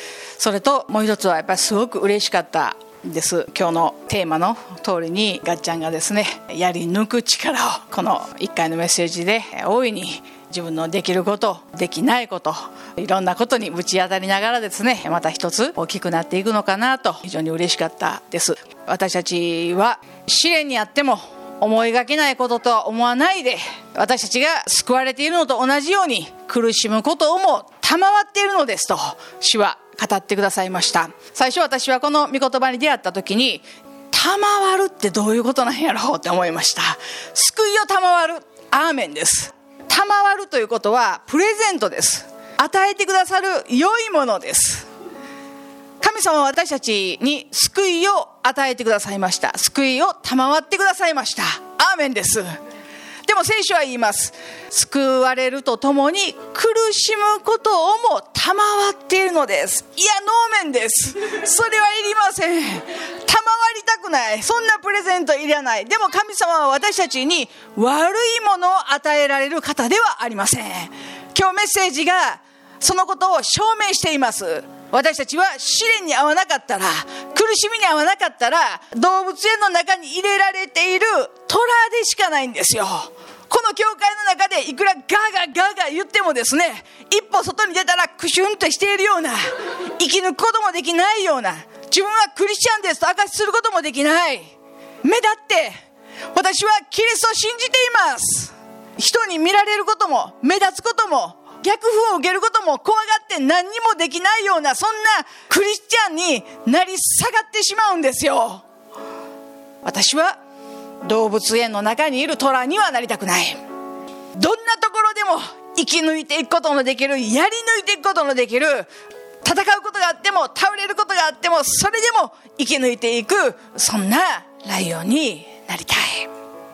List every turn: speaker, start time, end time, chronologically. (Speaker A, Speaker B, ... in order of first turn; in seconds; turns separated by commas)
Speaker A: 0.4-44.9, Speaker A: 46.0-52.5, Speaker A: 53.2-94.5, Speaker A: 95.0-95.8, Speaker A: 96.3-108.6, Speaker A: 109.8-110.4, Speaker A: 111.0-113.6, Speaker A: 114.3-118.9, Speaker A: 119.4-126.3